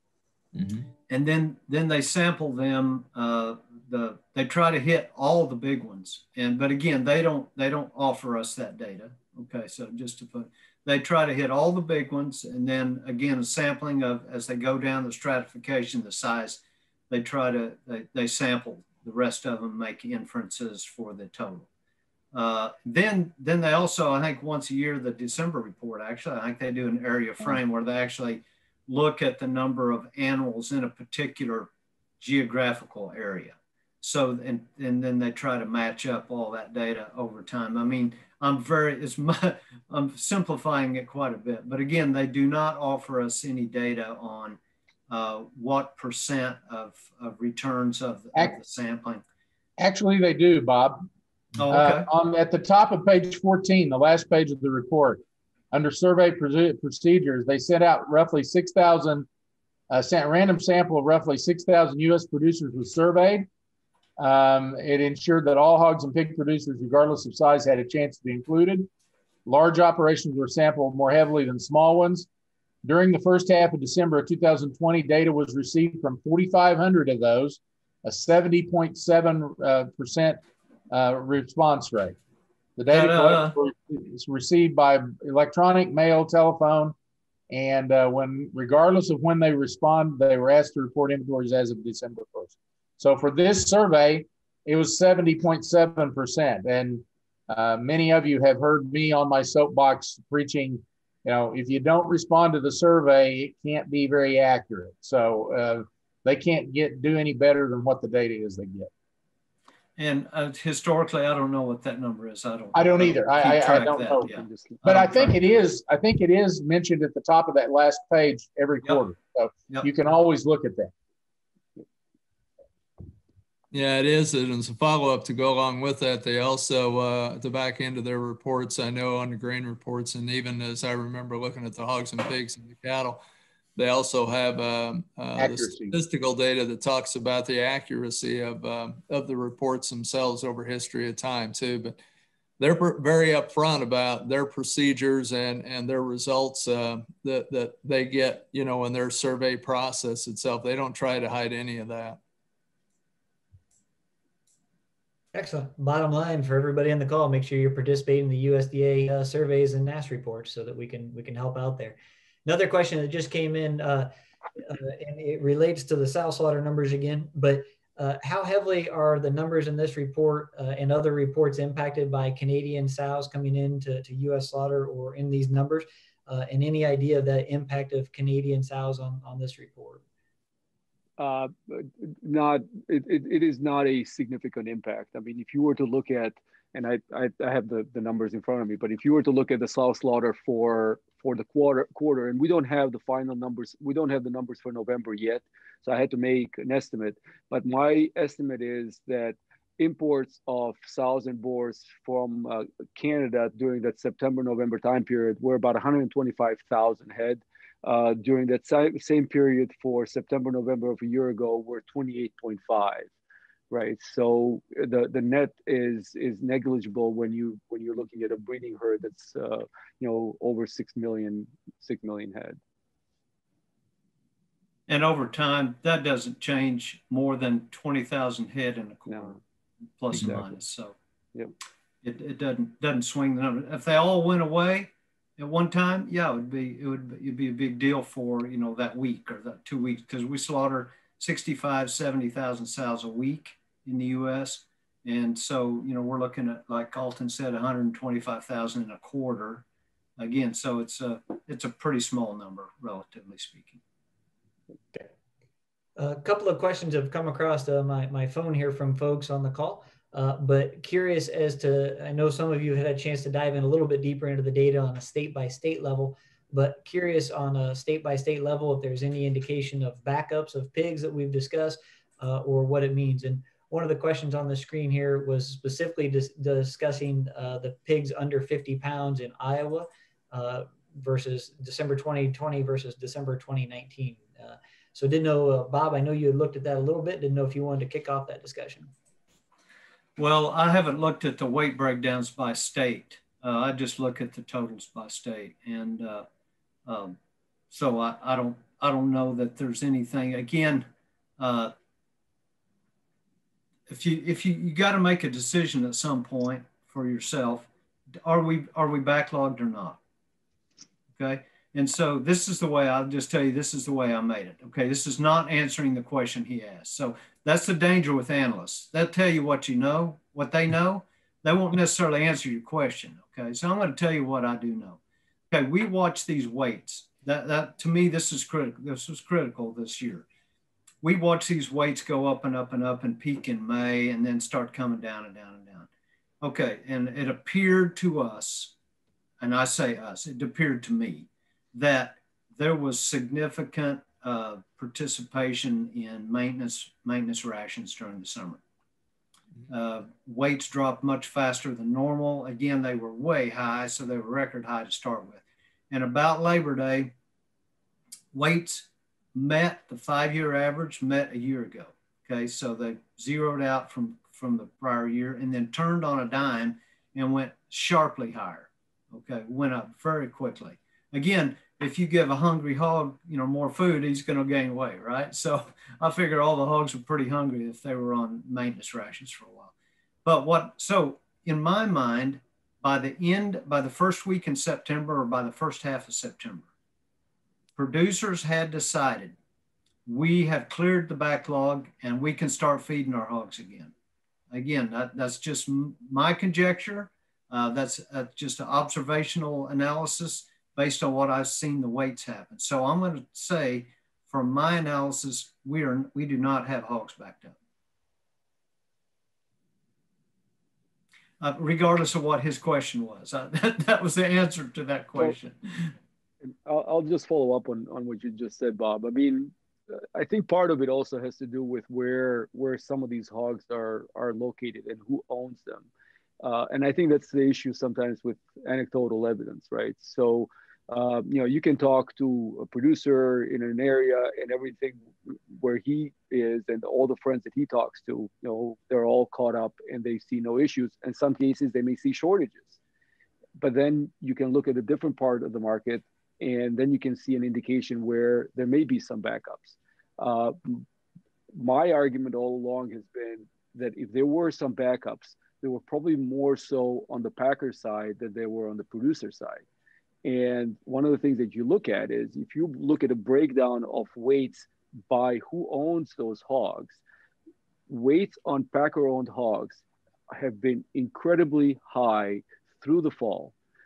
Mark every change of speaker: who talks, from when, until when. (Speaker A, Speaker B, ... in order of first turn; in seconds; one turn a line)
Speaker A: 1.1-21.7
Speaker A: 22.3-49.2
Speaker B: 49.8-51.1
Speaker A: 51.6-52.1
Speaker B: 51.7-55.2
Speaker B: 55.7-59.3
Speaker B: 59.9-63.5
Speaker B: 64.2-68.9
Speaker B: 69.5-72.3
Speaker B: 72.8-82.2
Speaker B: 82.8-87.0
Speaker A: 82.9-83.5
Speaker B: 87.5-108.9
Speaker A: 110.0-115.3
Speaker B: 112.7-114.3
Speaker C: 114.3-114.8
Speaker B: 114.8-120.9
Speaker D: 123.7-133.2
Speaker D: 133.8-142.0
Speaker B: 135.4-136.0
Speaker D: 142.6-152.2
Speaker E: 155.3-180.0
Speaker C: 181.2-213.1
Speaker C: 213.7-222.6
Speaker A: 224.9-229.4
Speaker C: 229.1-229.4
Speaker A: 230.0-230.9
Speaker C: 230.1-230.6
Speaker A: 232.0-249.6
Speaker A: 250.2-253.8
Speaker E: 256.0-288.9
Speaker A: 290.2-296.3
Speaker A: 296.9-297.2
Speaker A: 297.7-300.9
Speaker A: 301.4-301.7
Speaker A: 303.9-307.7
Speaker A: 308.2-310.0
Speaker A: 311.2-325.0
Speaker A: 325.5-330.2
Speaker A: 331.0-335.9
Speaker A: 336.4-338.7
Speaker A: 339.4-348.6
Speaker A: 349.7-357.1
Speaker A: 358.3-379.7
Speaker A: 380.2-386.7
Speaker A: 387.8-389.4
Speaker A: 390.1-393.9
Speaker A: 394.5-407.6
Speaker A: 411.4-415.9
Speaker C: 416.4-425.9
Speaker C: 426.4-442.8
Speaker C: 443.6-450.9
Speaker C: 451.5-459.6
Speaker C: 460.2-467.0
Speaker C: 467.9-473.5